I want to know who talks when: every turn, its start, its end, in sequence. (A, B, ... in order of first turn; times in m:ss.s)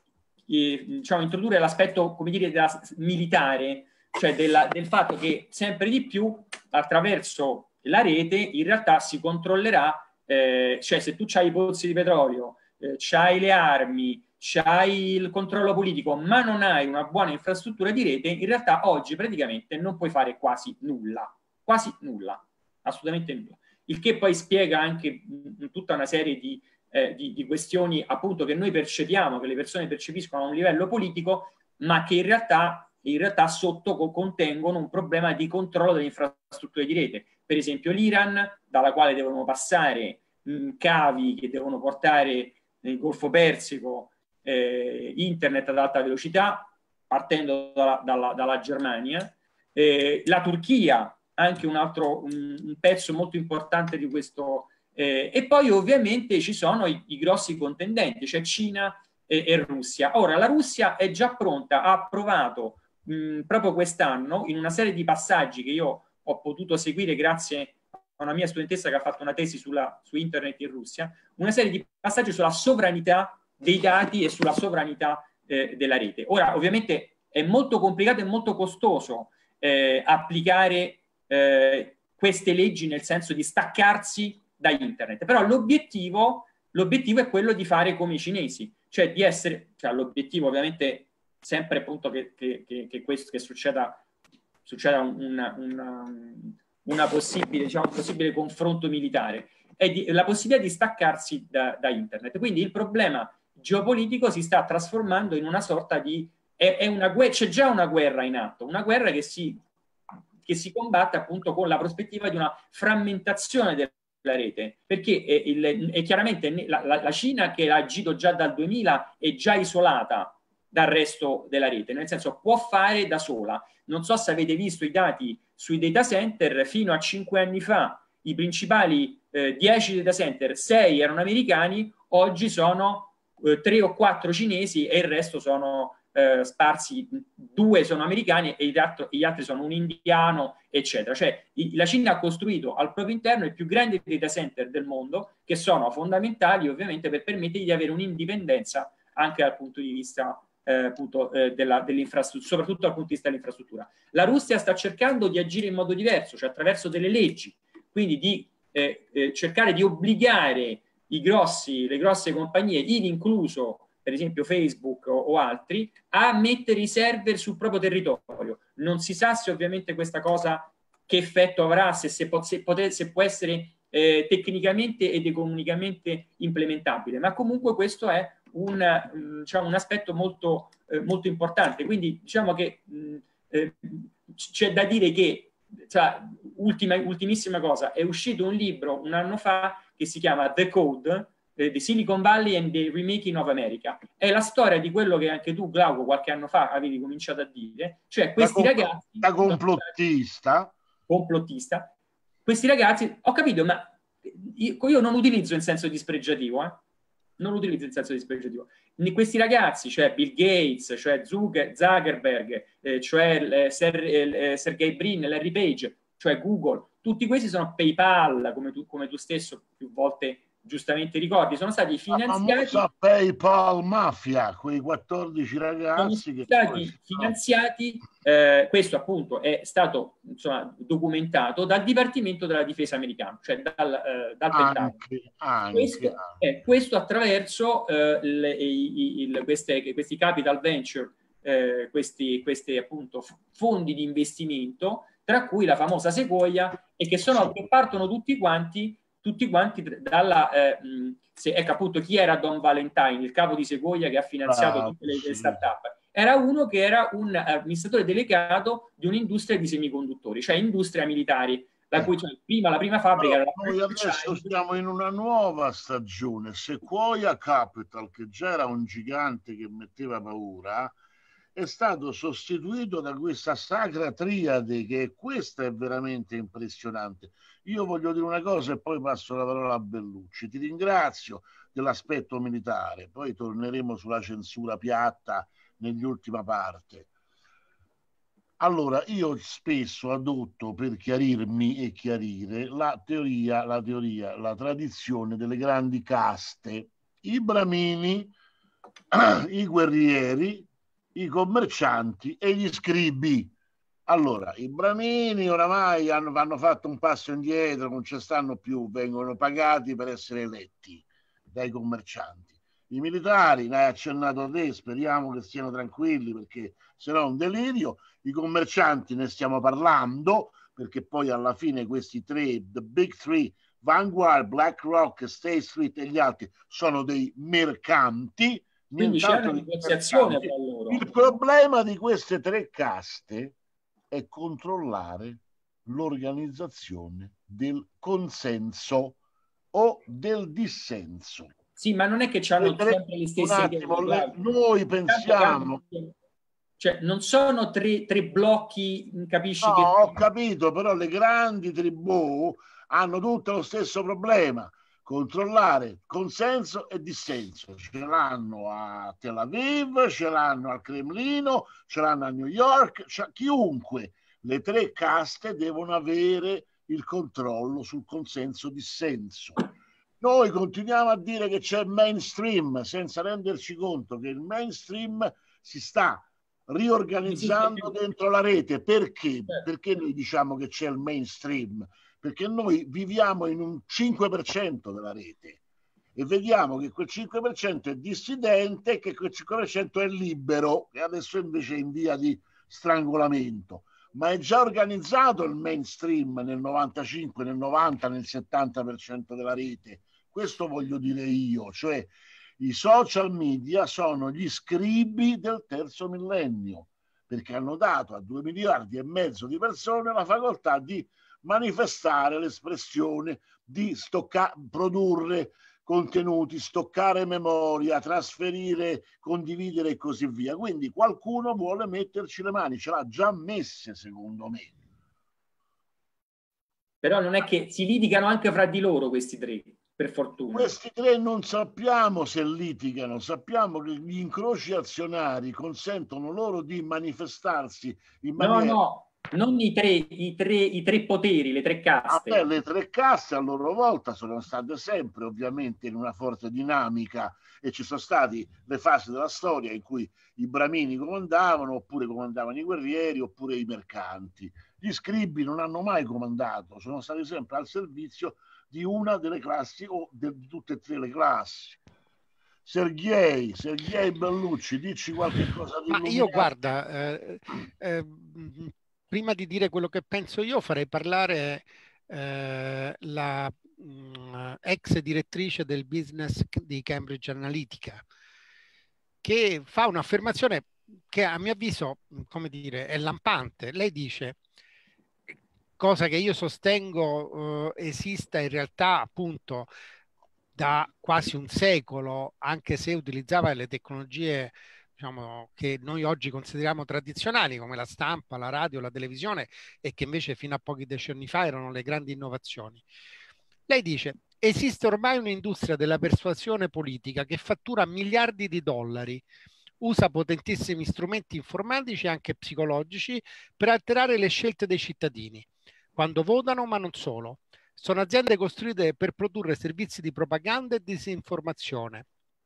0:00.5-1:34.0 A
1:34.7-1:49.6 A
1:50.4-3:19.9 A
3:18.4-3:20.7 B
3:21.1-3:21.9 A
3:22.5-3:26.8 A
3:27.4-3:42.9 A
3:42.1-3:47.3 B
3:46.0-3:55.0 A
3:54.5-3:56.4 B
3:55.7-4:24.4 A
4:14.5-4:15.6 B
4:23.2-4:31.0 B
4:31.6-4:47.1 B
4:48.6-4:58.3 B
4:59.1-5:03.5 B
5:04.1-5:33.6 B
5:29.0-5:31.1 A
5:34.1-5:39.2 B
5:39.7-5:41.5 B
5:41.8-5:44.4 A
5:42.6-5:45.8 B
5:45.1-5:46.1 A
5:46.8-5:50.2 A
5:49.6-6:09.6 B
6:10.2-6:25.6 B
6:17.3-6:17.9 A
6:26.2-7:04.7 B
7:07.0-7:10.7 A
7:10.5-7:18.8 B
7:18.4-7:22.5 A
7:22.1-7:41.8 B
7:42.6-7:46.5 B
7:45.9-7:58.0 C
7:59.2-8:04.4 C
8:05.8-8:09.7 C
8:10.6-8:22.8 C
8:23.7-8:29.2 C
8:29.8-8:42.0 C